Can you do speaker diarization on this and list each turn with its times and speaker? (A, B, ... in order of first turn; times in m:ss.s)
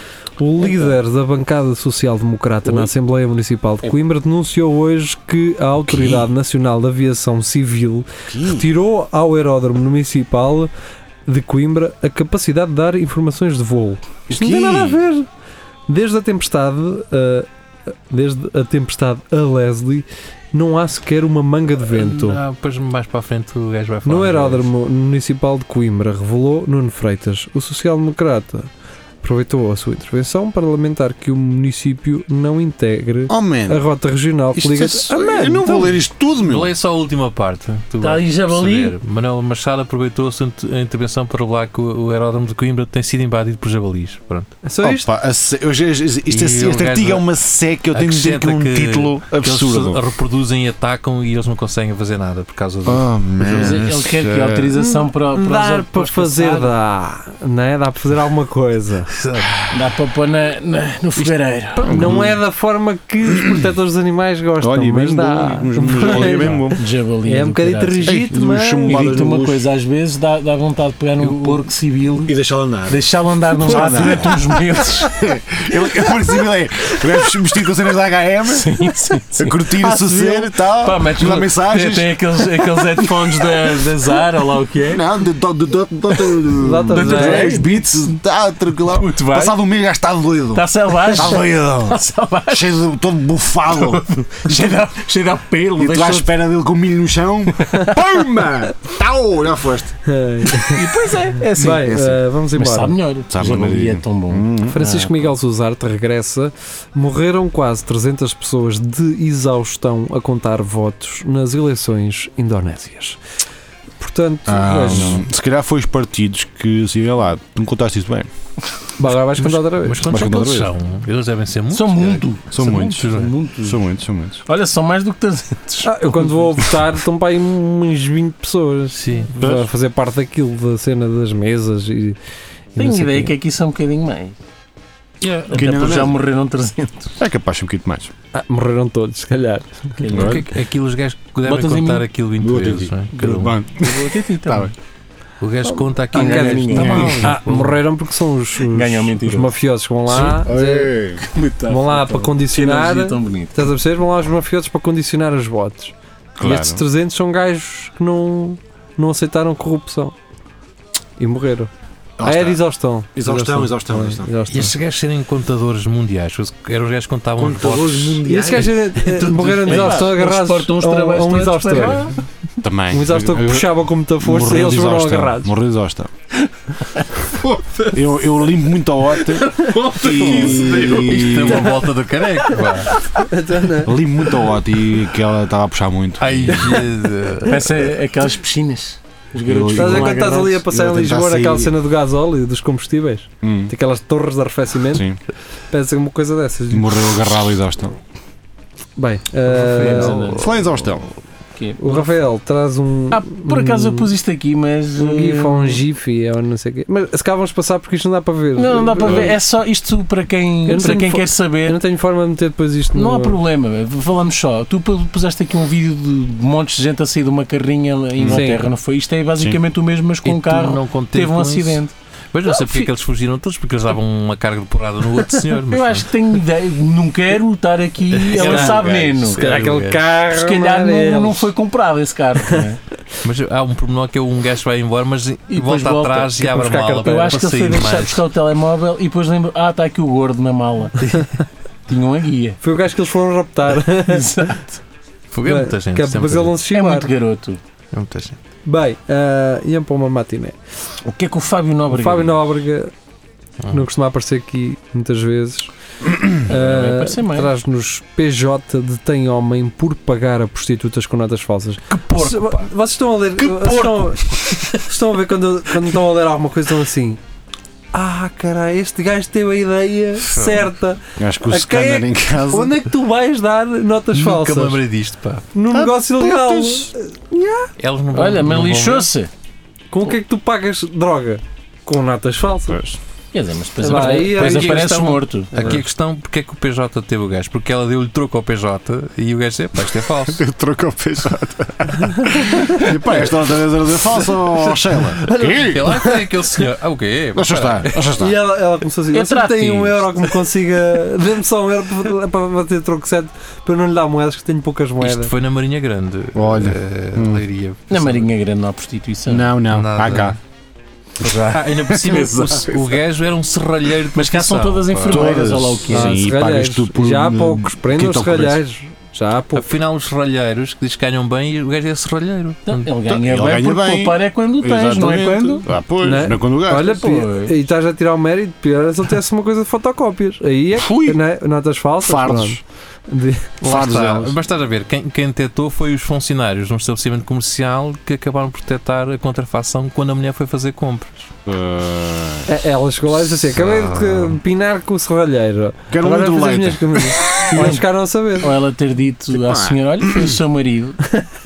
0:00.4-0:10.7 A
0:00.6-0:00.9 B
0:05.9-0:06.2 C
0:08.3-0:08.7 C
0:11.2-0:15.3 A
0:14.3-0:15.0 C
0:15.9-0:17.5 A
0:18.1-0:22.4 A
0:21.8-0:24.7 D
0:24.0-0:28.7 A
0:29.2-0:36.0 A
0:33.3-0:33.8 C
0:34.5-0:36.7 C
0:36.4-0:44.5 D
0:38.0-0:38.9 B
0:44.6-0:45.1 A
0:44.8-0:50.0 C
0:46.3-0:47.2 D
0:47.9-0:53.9 D
0:52.8-0:54.7 C
0:53.4-0:56.7 B
0:54.8-0:59.1 A
0:59.1-0:59.7 D
0:59.7-1:02.1 B
1:01.8-1:09.1 A
1:01.8-1:02.4 C
1:04.6-1:06.8 C
1:06.0-1:08.2 B
1:08.0-1:09.6 C
1:08.9-1:12.3 B
1:11.2-1:11.6 D
1:12.2-1:18.7 C
1:12.9-1:15.1 B
1:18.5-1:20.2 B
1:19.4-1:23.8 C
1:19.9-1:20.4 A
1:20.8-1:25.0 B
1:24.9-1:34.0 C
1:26.6-1:27.6 A
1:26.9-1:27.9 B
1:28.8-1:29.6 B
1:30.5-1:32.7 B
1:33.7-1:36.3 B
1:35.8-1:39.9 C
1:40.0-1:40.8 A
1:40.6-1:45.3 B
1:41.4-1:43.0 A
1:41.6-1:42.2 C
1:43.3-1:44.8 C
1:44.7-1:53.2 A
1:54.0-1:55.2 A
1:54.5-1:58.3 C
1:59.0-2:00.2 A
1:59.4-2:03.3 D
2:00.0-2:00.7 C
2:01.7-2:03.8 B
2:02.5-2:03.1 C
2:03.6-2:04.4 C
2:04.4-2:06.4 B
2:05.8-2:12.2 A
2:08.9-2:09.3 D
2:09.4-2:09.7 C
2:12.8-2:13.3 A
2:12.8-2:14.4 B
2:15.4-2:17.1 B
2:15.4-2:16.2 C
2:17.2-2:18.1 C
2:18.3-2:20.0 A
2:20.0-2:20.5 B
2:20.1-2:20.5 C
2:20.1-2:23.6 D
2:21.4-2:22.0 B
2:22.4-2:24.7 C
2:23.8-2:24.7 B
2:25.4-2:27.8 D
2:26.1-2:30.9 A
2:26.1-2:27.3 B
2:26.7-2:27.3 C
2:28.6-2:29.5 B
2:30.1-2:31.2 C
2:31.2-2:33.6 B
2:31.7-2:40.1 A
2:36.4-2:36.8 C
2:41.2-2:41.7 A
2:42.2-2:42.6 C
2:42.2-2:44.7 A
2:43.1-2:44.3 C
2:44.5-2:48.3 D
2:47.4-2:48.7 C
2:48.2-2:52.1 A
2:49.0-2:50.0 D
2:49.3-2:52.2 B
2:52.6-2:56.1 C
2:52.9-2:55.5 A
2:57.0-2:57.3 B
2:57.4-3:01.8 C
2:59.3-3:01.7 B
3:00.6-3:02.9 D
3:03.2-3:04.0 A
3:03.8-3:06.8 C
3:06.2-3:07.7 D
3:07.4-3:10.6 B
3:09.4-3:11.7 C
3:09.7-3:15.1 A
3:13.4-3:13.7 C
3:14.9-3:15.2 C
3:15.7-3:17.1 A
3:16.7-3:18.0 C
3:19.0-3:20.4 A
3:19.5-3:20.6 B
3:19.7-3:20.4 D
3:20.3-3:21.1 C
3:21.5-3:22.0 B
3:21.8-3:24.1 A
3:23.1-3:25.8 B
3:25.0-3:29.4 A
3:28.6-3:31.8 B
3:30.6-3:33.4 A
3:32.9-3:41.9 B
3:38.2-3:38.4 C
3:38.2-3:38.7 A
3:40.2-3:41.8 D
3:42.3-3:46.1 D
3:42.5-3:42.9 B
3:45.6-3:49.4 B
3:48.1-3:50.0 D
3:48.4-3:51.5 A
3:48.8-3:49.2 C
3:50.3-3:52.8 B
3:53.2-3:58.2 D
3:55.5-3:56.5 B
3:56.4-3:57.4 A
3:57.0-4:01.1 B
4:01.9-4:02.6 B
4:02.6-4:04.5 A
4:03.9-4:04.8 B
4:05.3-4:06.6 D
4:05.4-4:07.1 A
4:06.7-4:07.6 B
4:07.9-4:08.4 D
4:08.6-4:10.6 A
4:11.0-4:12.4 B
4:11.9-4:12.9 A
4:13.7-4:15.7 A
4:16.4-4:27.2 A
4:16.4-4:17.5 B
4:21.9-4:22.7 D
4:23.4-4:24.8 D
4:27.9-4:34.8 A
4:30.3-4:30.7 D
4:31.2-4:32.7 C
4:34.1-4:35.4 D
4:35.5-4:37.7 A
4:35.7-4:36.9 C
4:37.8-4:39.1 D
4:38.1-4:39.3 B
4:39.9-4:42.9 A
4:42.7-4:43.0 C
4:43.3-4:45.5 B
4:43.8-4:45.8 A
4:43.9-4:50.4 D
4:50.3-4:56.0 C
4:52.3-4:52.8 A
4:55.2-4:56.2 A
4:55.7-4:58.0 D
4:57.3-4:58.4 C
4:58.1-5:05.3 A
4:59.1-5:00.1 B
5:05.0-5:08.3 D
5:06.3-5:07.4 C
5:07.9-5:09.5 B
5:09.3-5:10.4 C
5:09.7-5:10.4 D
5:11.2-5:12.6 C
5:11.2-5:15.4 D
5:12.0-5:12.7 B
5:14.1-5:16.2 B
5:15.1-5:18.6 C
5:15.9-5:19.7 A
5:19.5-5:22.9 D
5:22.7-5:25.6 B
5:23.0-5:27.0 C
5:26.0-5:33.6 A
5:26.8-5:27.5 B
5:30.7-5:31.2 C
5:32.0-5:32.6 C
5:33.6-5:41.3 D
5:33.6-5:34.4 C
5:41.4-5:42.5 C
5:42.4-5:48.5 A
5:43.5-5:44.4 D
5:45.9-5:47.6 C
5:47.5-5:47.8 B
5:48.4-5:51.0 B
5:49.3-5:50.4 C